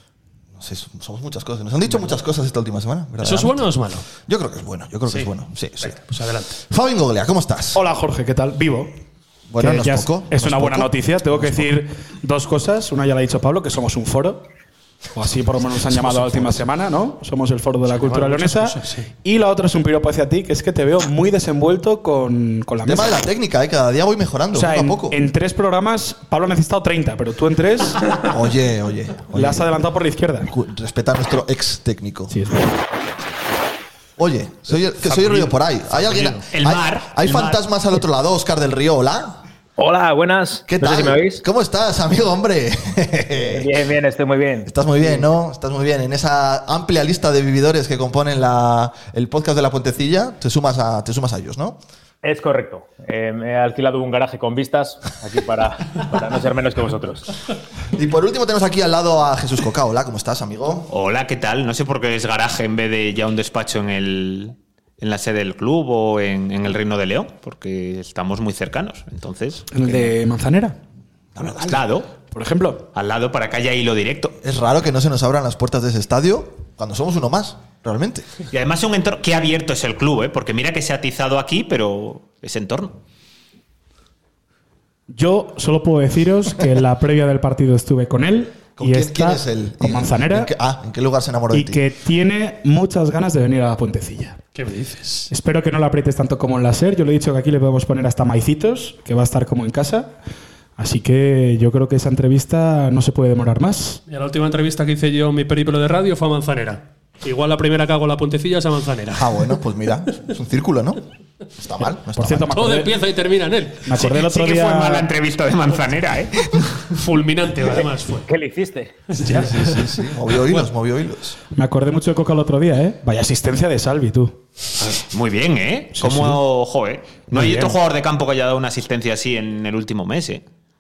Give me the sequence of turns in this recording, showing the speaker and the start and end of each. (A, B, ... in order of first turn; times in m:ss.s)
0:00.6-0:06.0 A
0:03.2-0:04.0 B
0:05.1-0:06.6 B
0:06.7-0:07.8 A
0:07.7-0:08.9 C
0:09.5-0:11.8 A
0:09.6-0:14.4 C
0:15.2-0:23.2 C
0:17.9-0:19.1 B
0:22.8-0:25.2 A
0:24.5-0:28.1 C
0:28.2-0:29.7 A
0:29.3-0:30.5 C
0:30.5-0:32.4 A
0:32.3-0:32.8 C
0:34.2-0:39.4 A
0:35.0-0:36.4 B
0:36.5-0:37.6 D
0:39.8-0:41.4 E
0:40.7-0:43.7 A
0:43.5-0:45.2 E
0:44.7-0:51.8 A
0:52.2-0:57.3 E
0:57.9-1:00.9 A
1:00.9-1:10.1 D
1:09.7-1:10.8 C
1:11.4-1:11.9 A
1:11.6-1:12.1 D
1:12.3-1:12.8 C
1:12.9-1:14.4 D
1:14.4-1:18.3 A
1:18.5-1:23.0 D
1:25.1-1:30.5 C
1:28.8-1:31.8 A
1:31.5-1:34.4 C
1:34.6-1:35.3 B
1:35.3-1:40.1 C
1:40.8-1:44.0 C
1:44.1-1:49.6 B
1:49.2-1:51.0 A
1:51.6-1:52.5 A
1:52.2-1:53.0 C
1:52.5-1:53.9 B
1:53.8-1:55.1 C
1:54.0-1:56.8 D
1:57.0-1:58.3 B
1:57.7-1:59.1 E
1:59.1-2:00.0 B
1:59.2-2:01.4 A
2:01.5-2:04.4 C
2:05.1-2:10.4 D
2:06.0-2:06.4 C
2:07.3-2:07.8 C